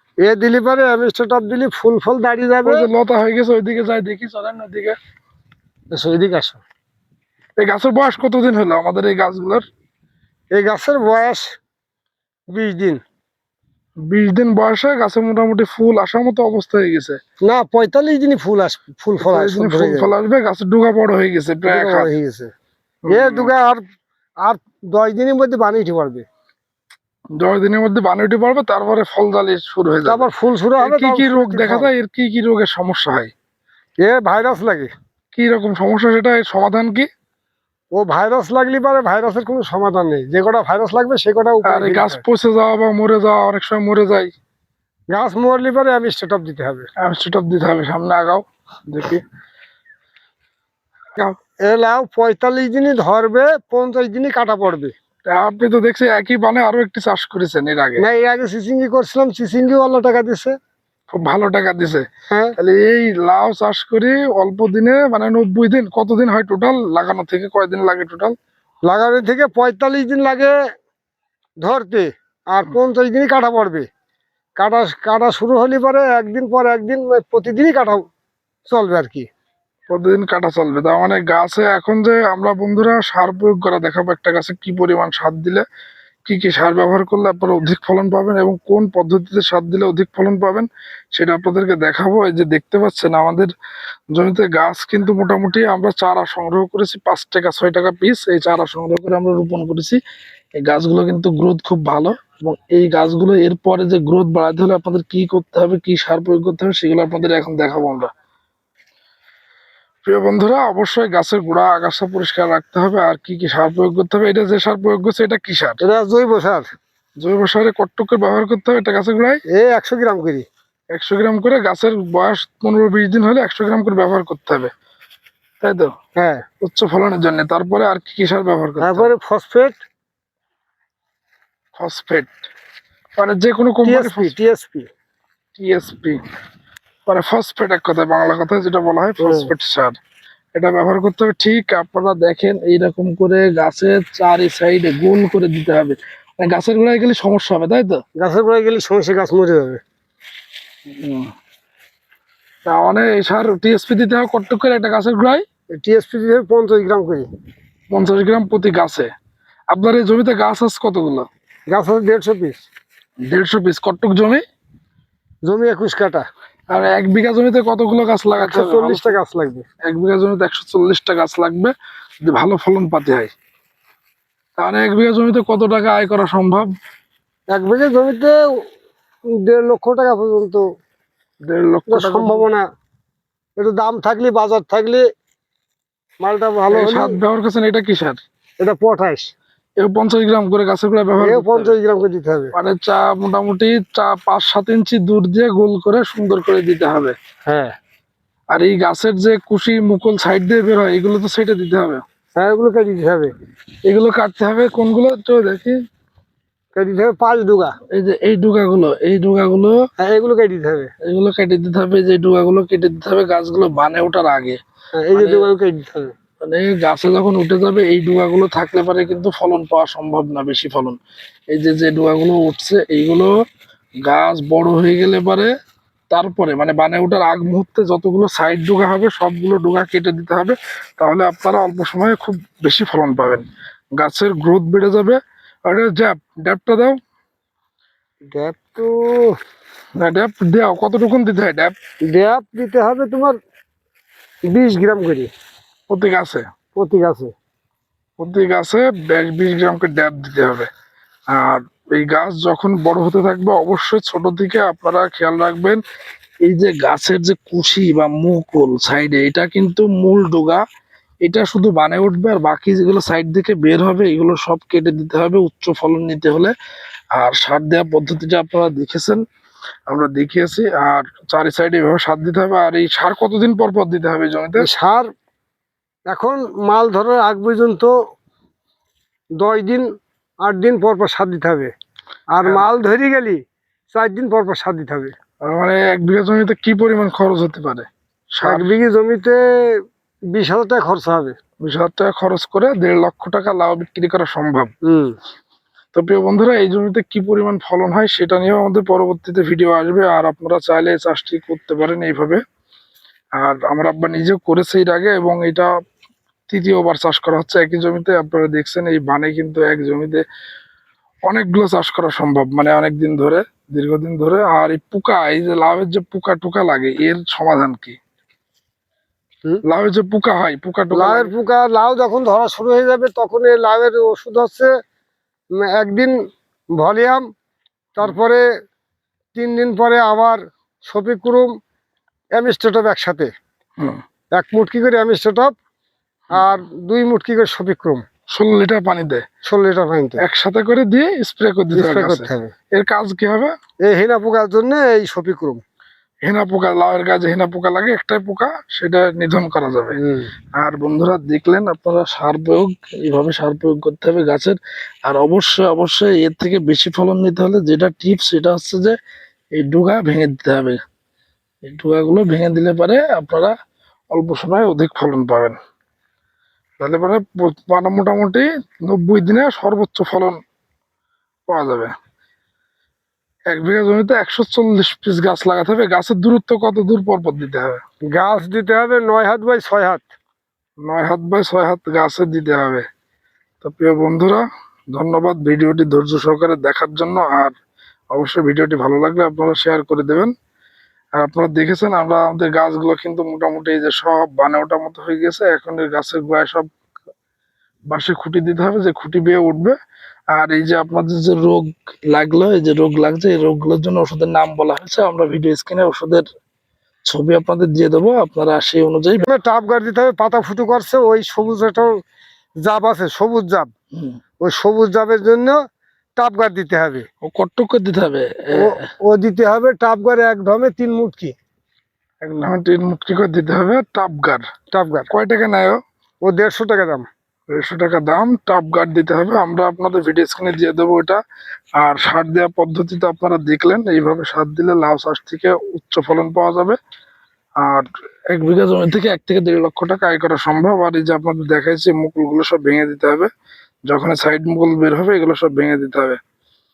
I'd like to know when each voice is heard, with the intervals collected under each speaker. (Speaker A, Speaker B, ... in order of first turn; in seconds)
Speaker A: 0.2-2.9, 5.9-6.6, 10.6-11.5, 12.5-13.0, 17.4-20.1, 21.7-22.5, 23.1-23.8, 24.4-26.2, 30.1-31.9, 34.0-34.9, 38.0-42.2, 45.1-46.9, 51.7-54.9, 58.0-60.5, 62.3-62.6, 68.9-70.5, 71.6-73.9, 74.6-78.0, 78.7-79.3, 115.8-116.7, 119.5-120.5, 126.2-126.4, 128.8-129.8, 133.8-134.9, 139.2-139.5, 148.2-149.8, 155.8-157.3, 161.7-162.6, 165.5-166.3, 168.4-169.7, 177.5-178.4, 179.4-180.6, 181.9-182.7, 183.6-185.0, 186.2-187.2, 188.6-189.3, 191.2-192.5, 197.5-197.7, 202.4-203.3, 206.8-207.7, 210.0-210.9, 215.0-216.1, 238.3-239.3, 242.1-243.4, 244.5-245.3, 246.8-247.3, 274.6-275.1, 276.1-277.9, 279.4-279.9, 280.4-281.7, 282.3-283.4, 283.9-285.1, 288.4-289.8, 290.3-291.4, 294.9-295.1, 320.9-324.7, 325.6-326.1, 326.8-327.2, 328.0-328.4, 329.4-331.5, 332.4-333.3, 334.4-335.5, 336.3-338.0, 339.4-340.2, 341.7-342.5, 343.9-345.6, 350.0-350.3, 378.1-380.1, 409.2-411.9, 412.6-413.7, 414.4-415.6, 416.2-417.1, 418.6-421.4, 424.7-425.1, 426.2-427.1
Speaker B: 2.6-5.0, 7.6-9.6, 14.1-17.2, 19.2-22.1, 23.1-23.5, 27.4-30.3, 30.8-33.3, 35.3-37.1, 41.6-44.3, 47.0-49.2, 55.3-58.0, 61.1-62.0, 62.6-68.3, 79.9-85.6, 86.3-93.5, 94.1-100.0, 100.6-108.1, 110.0-115.8, 117.2-119.4, 120.9-124.7, 125.6-125.9, 126.6-129.1, 131.8-132.5, 133.2-134.3, 135.6-136.2, 137.1-140.0, 140.6-148.0, 150.9-151.3, 152.7-155.4, 157.9-159.1, 159.7-161.3, 163.3-164.4, 166.7-169.2, 169.8-171.7, 172.2-173.3, 174.6-176.7, 181.5-182.5, 186.7-188.2, 189.8-191.8, 192.5-197.2, 198.5-202.0, 203.9-205.8, 207.9-209.8, 211.0-214.6, 215.2-215.5, 216.4-221.0, 221.5-223.3, 224.0-225.5, 226.1-233.4, 234.0-237.0, 240.0-241.8, 245.9-246.4, 248.2-250.7, 251.3-255.8, 256.4-260.6, 261.2-266.5, 267.2-269.2, 269.9-274.7, 285.5-288.7, 291.6-294.7, 295.9-302.4, 303.4-305.7, 306.5-310.2, 311.3-318.0, 319.7-321.3, 338.3-339.2, 340.2-343.5, 346.2-350.0, 350.6-359.0, 359.6-360.8, 361.6-363.6, 364.1-365.6, 366.8-370.4, 371.5-371.9, 373.5-377.8, 380.9-382.9, 383.6-387.5, 388.1-390.3, 391.2-396.7, 397.9-399.8, 400.3-406.3, 407.1-409.3, 417.2-418.8, 422.2-424.4, 425.1-425.8, 427.5-431.2, 431.8-436.8, 437.6-443.3, 443.9-446.2